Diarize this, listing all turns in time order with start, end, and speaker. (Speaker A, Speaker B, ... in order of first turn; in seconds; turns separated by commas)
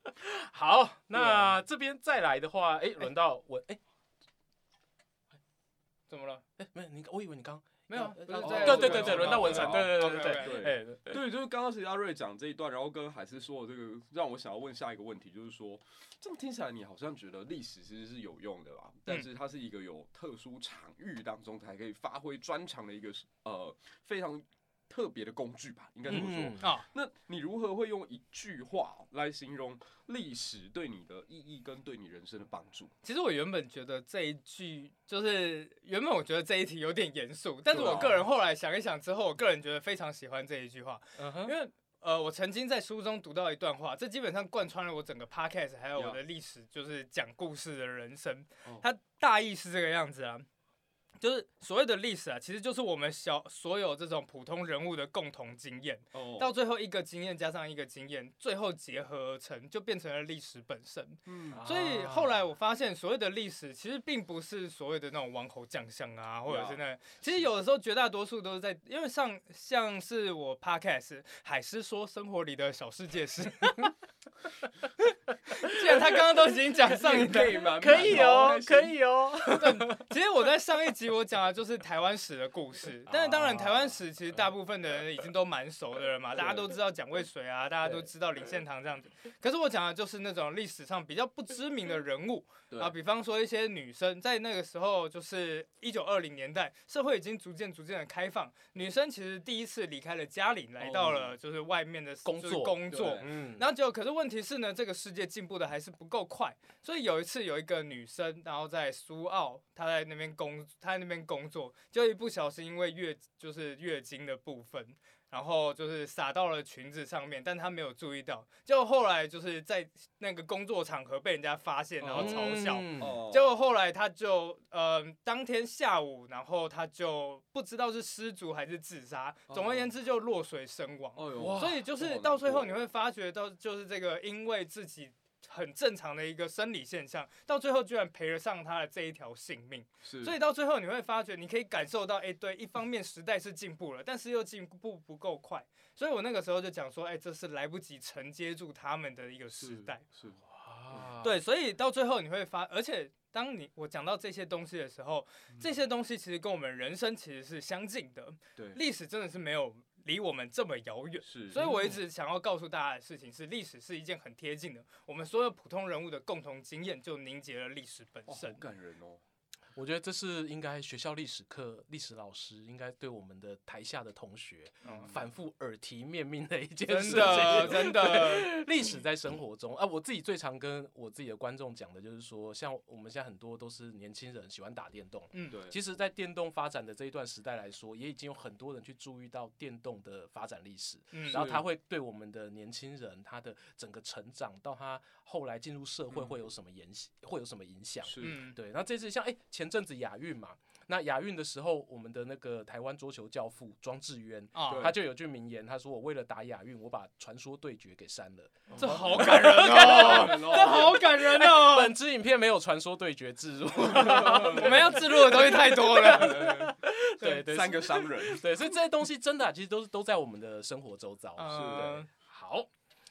Speaker A: 0.2-3.8, Speaker B: 1.1-1.6, Speaker C: 6.1-6.4, Speaker A: 6.6-11.2, Speaker C: 7.9-10.6, Speaker B: 8.4-32.9, Speaker A: 26.1-26.6, Speaker C: 26.6-26.9, Speaker C: 33.0-50.5, Speaker B: 37.7-38.2, Speaker A: 41.2-41.5, Speaker C: 51.2-73.9, Speaker B: 56.1-56.5, Speaker B: 61.3-61.6, Speaker A: 61.5-62.4, Speaker B: 66.5-66.8, Speaker C: 75.5-77.7, Speaker B: 76.9-79.0, Speaker A: 77.8-80.0, Speaker C: 79.5-150.0, Speaker A: 83.1-84.0, Speaker B: 100.8-101.3, Speaker A: 102.2-103.7, Speaker B: 102.9-103.3, Speaker B: 122.0-122.4, Speaker A: 122.1-123.2, Speaker B: 123.0-123.5, Speaker B: 129.5-129.9, Speaker B: 131.2-132.8, Speaker A: 131.4-131.8, Speaker B: 140.0-140.4, Speaker B: 149.6-150.4, Speaker A: 150.5-151.3, Speaker C: 151.2-168.6, Speaker B: 161.2-161.7, Speaker A: 161.6-162.0, Speaker B: 168.3-169.2, Speaker A: 169.8-222.7, Speaker C: 174.8-175.1, Speaker B: 174.9-175.2, Speaker C: 176.9-178.5, Speaker B: 177.0-178.1, Speaker B: 185.5-185.8, Speaker C: 191.1-191.4, Speaker B: 191.3-191.7, Speaker B: 196.1-196.4, Speaker B: 198.1-198.4, Speaker C: 198.2-198.6, Speaker C: 204.6-204.9, Speaker B: 204.7-205.0, Speaker B: 208.8-211.0, Speaker C: 208.8-212.0, Speaker B: 213.9-214.9, Speaker C: 214.0-216.7, Speaker B: 216.0-218.4, Speaker C: 221.4-222.1, Speaker B: 221.5-222.0